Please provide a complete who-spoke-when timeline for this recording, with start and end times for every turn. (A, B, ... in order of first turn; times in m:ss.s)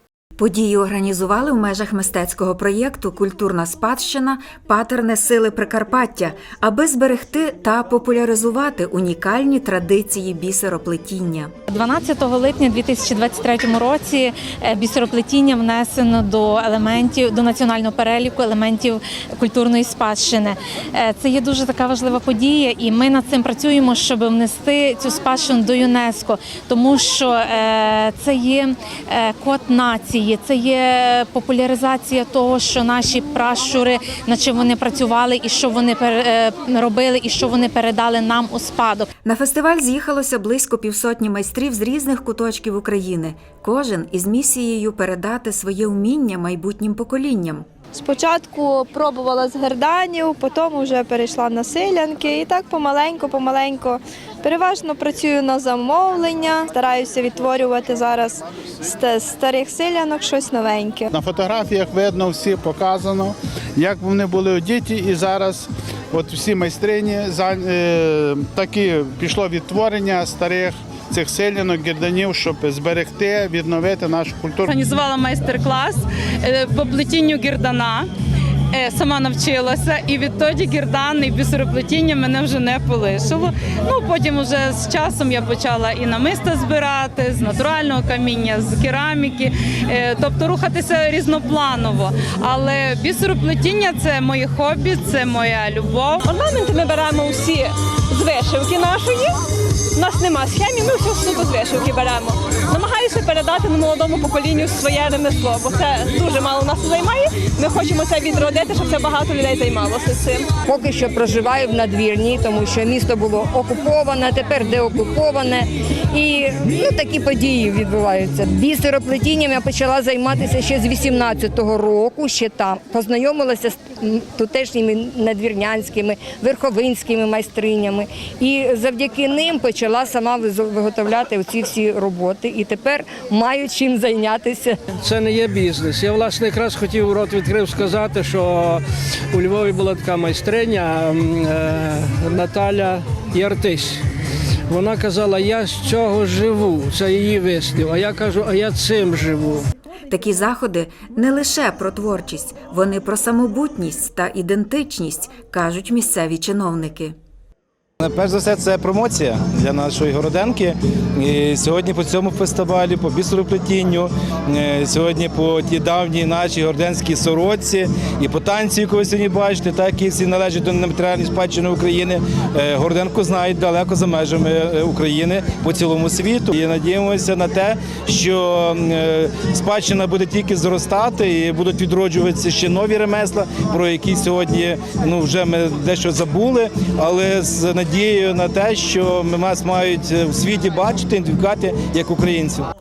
0:00.4-0:11.5 A
0:11.7-0:39.1 B
0:39.2-0:47.7 A
0:47.9-1:01.1 C
1:01.1-1:14.7 D
1:14.7-1:18.1 E
1:18.7-1:36.2 E
1:36.2-1:39.4 F
1:40.0-1:50.5 F
1:50.7-2:14.7 G
2:15.0-2:24.0 H
2:24.7-2:29.6 H
2:30.1-2:37.1 A
2:38.0-3:12.7 I